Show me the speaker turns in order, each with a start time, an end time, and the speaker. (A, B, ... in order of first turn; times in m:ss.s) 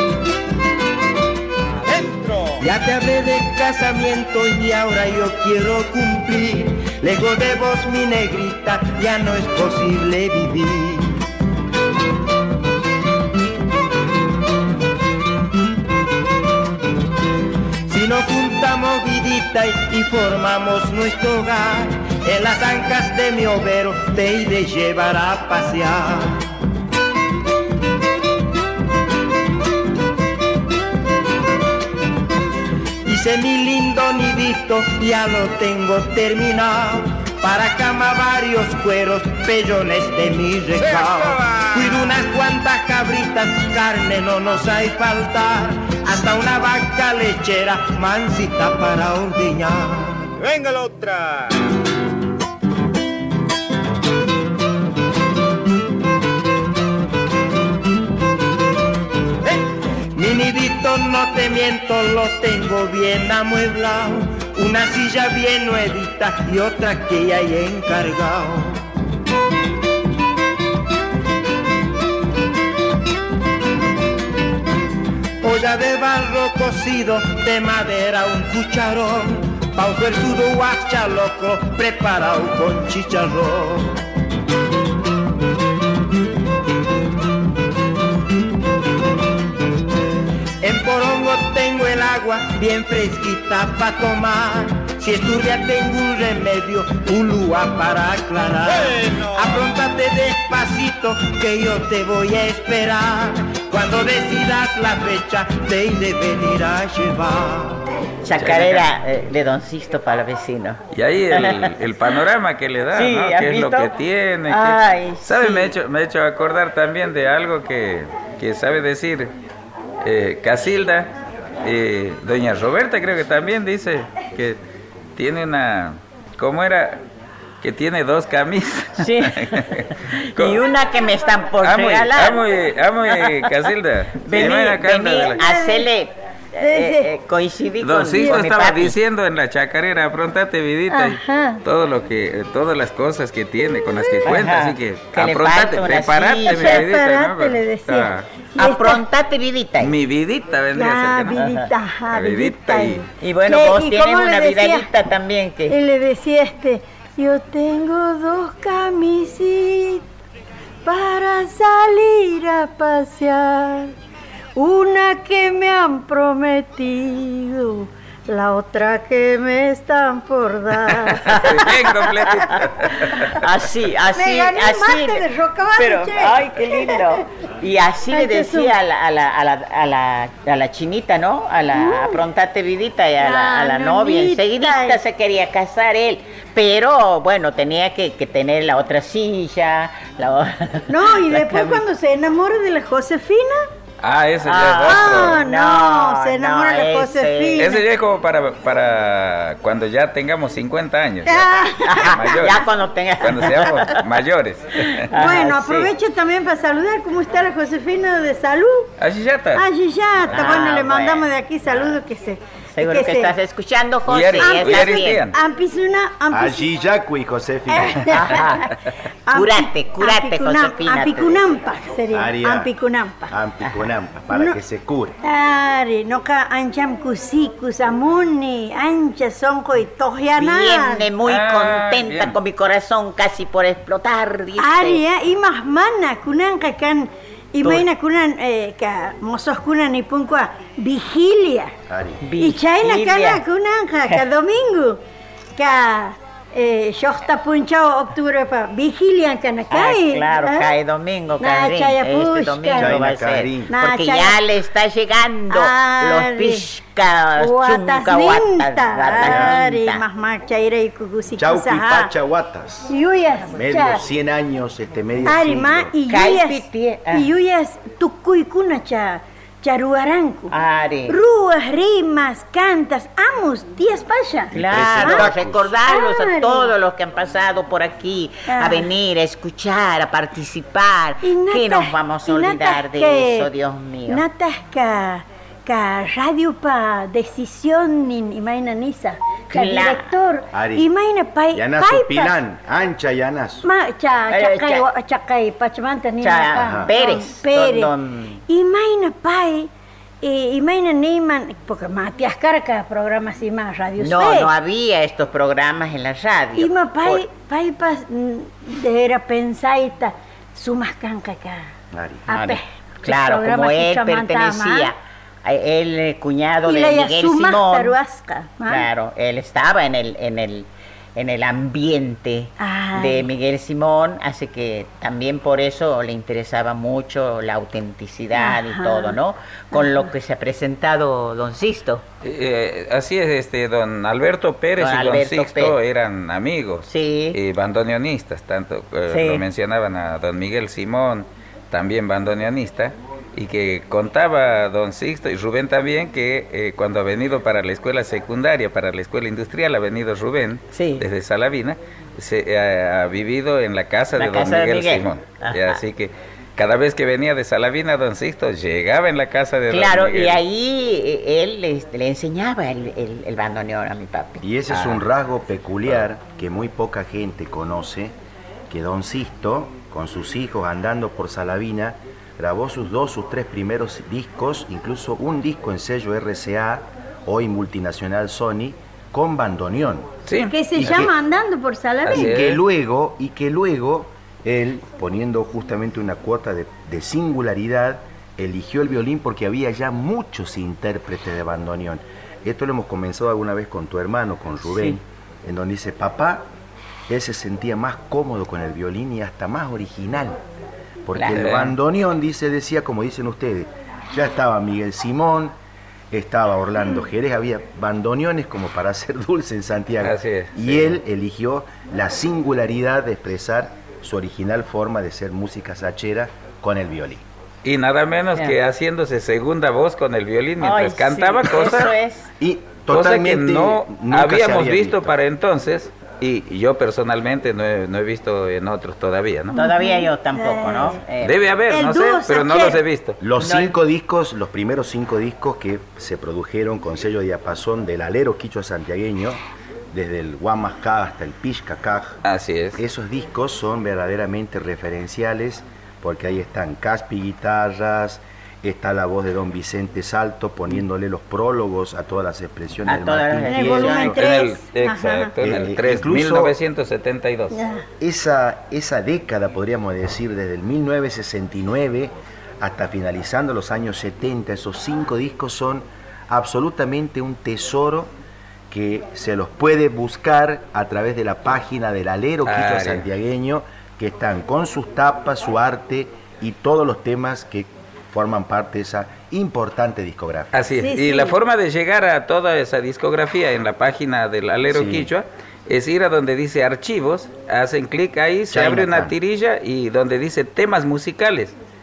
0:02.6-0:11.2 A
0:17.9-0:26.4 A
0:33.0-0:50.4 A
1:00.1-1:08.8 A
1:15.4-1:23.9 A
1:30.6-1:47.8 A
1:48.2-1:51.7 B
1:48.3-1:48.9 C
1:50.9-1:59.3 C
1:52.9-1:53.9 B
1:54.5-1:55.7 B
2:00.0-2:01.1 C
2:01.6-2:04.6 C
2:05.2-2:07.0 C
2:07.6-2:10.6 C
2:09.0-2:12.5 B
2:11.6-2:15.4 C
2:13.1-2:13.5 B
2:14.2-2:19.0 B
2:15.3-2:15.9 D
2:16.6-2:17.1 D
2:17.8-2:28.2 C
2:18.1-2:18.4 D
2:20.9-2:21.6 D
2:24.2-2:26.9 B
2:26.4-2:29.0 D
2:28.6-2:29.9 B
2:29.8-2:31.4 C
2:30.7-2:34.9 D
2:31.4-2:31.7 B
2:32.1-2:33.0 C
2:33.2-2:35.7 B
2:35.7-2:40.0 D
2:40.8-2:43.9 D
2:44.6-2:51.4 D
2:51.0-2:53.4 C
2:51.3-3:11.8 B
2:54.1-2:57.2 D
2:58.1-2:58.8 D
3:01.7-3:02.2 D
3:03.2-3:05.0 D
3:10.9-3:13.7 D
3:14.0-3:15.4 C
3:14.4-3:17.8 B
3:14.8-3:17.8 D
3:17.6-3:22.6 C
3:21.2-3:22.3 D
3:21.8-3:24.0 B
3:23.2-3:25.0 C
3:25.1-3:25.9 B
3:25.1-3:28.9 D
3:29.0-3:29.6 C
3:29.5-3:33.3 D
3:30.3-3:32.0 B
3:30.3-3:30.6 C
3:32.7-3:35.3 B
3:34.1-3:35.4 C
3:34.4-3:36.6 D
3:36.3-3:38.1 E
3:37.7-3:38.6 D
3:38.2-3:38.7 B
3:39.3-3:43.3 D
3:39.3-3:41.6 B
3:42.1-3:42.7 E
3:43.3-3:45.2 E
3:43.6-3:43.9 B
3:44.3-3:44.6 D
3:45.2-3:51.1 D
3:50.4-3:55.0 B
3:51.2-3:52.4 C
3:54.6-4:01.7 D
3:57.6-3:57.9 B
4:01.9-4:02.2 E
4:02.2-4:03.4 B
4:02.4-4:05.0 D
4:05.6-4:10.7 D
4:09.7-4:20.0 B
4:11.4-4:13.0 D
4:12.8-4:13.7 E
4:13.7-4:14.4 D
4:15.5-4:16.7 D
4:17.4-4:22.1 D
4:19.2-4:19.6 E
4:21.4-4:22.9 E
4:22.9-4:24.0 D
4:23.5-4:26.0 E
4:25.2-4:30.5 D
4:26.1-4:27.3 B
4:30.5-4:31.2 B
4:31.1-4:35.3 D
4:34.5-4:35.7 E
4:34.5-4:44.2 B
4:35.8-4:36.7 D
4:38.5-4:38.9 D
4:41.2-4:43.5 D
4:44.1-4:52.3 D
4:49.5-4:50.1 B
4:50.5-4:50.9 E
4:51.5-4:53.6 E
4:53.6-4:57.9 D
4:54.3-4:54.9 B
4:56.2-4:58.4 B
4:56.5-4:56.9 E
4:58.5-4:59.7 D
5:00.2-5:04.5 D
5:04.0-5:07.2 B
5:06.6-5:11.7 D
5:11.9-5:12.3 E
5:12.3-5:14.9 D
5:12.3-5:18.0 B
5:16.6-5:18.9 D
5:18.7-5:32.0 B
5:22.6-5:23.3 D
5:28.3-5:29.2 D
5:29.7-5:30.1 D
5:32.2-6:00.4 C
5:34.8-5:35.8 B
5:36.8-5:37.4 B
5:39.1-5:39.4 B
5:50.7-5:51.0 B
5:54.1-5:55.8 B
5:59.7-6:05.0 B
6:04.4-6:08.2 E
6:08.7-6:20.1 E
6:20.2-6:21.1 C
6:20.5-6:22.4 D
6:20.8-6:21.1 E
6:22.0-6:22.6 C
6:22.1-6:36.4 E
6:34.6-6:35.0 B
6:37.1-6:40.4 E
6:41.0-6:45.5 E
6:41.1-6:41.4 B
6:41.3-6:41.7 C
6:46.1-6:57.2 E
6:50.0-6:51.0 C
6:57.6-7:01.9 C
7:00.6-7:02.3 B
7:02.4-7:05.2 E
7:02.9-7:09.6 C
7:09.5-7:11.0 D
7:09.5-7:11.5 B
7:11.2-7:13.2 C
7:11.7-7:12.8 D
7:13.2-7:19.4 E
7:13.4-7:13.7 B
7:19.9-7:22.2 E
7:22.2-7:22.8 C
7:22.8-7:34.2 E
7:32.9-7:34.2 B
7:33.4-7:35.3 D
7:34.2-7:37.6 C
7:35.4-7:36.5 E
7:37.5-7:37.8 D
7:38.0-7:48.1 E
7:48.7-8:00.6 E
7:52.4-7:53.0 C
8:00.5-8:11.5 C
8:00.7-8:01.4 D
8:04.7-8:05.1 E
8:08.5-8:09.1 E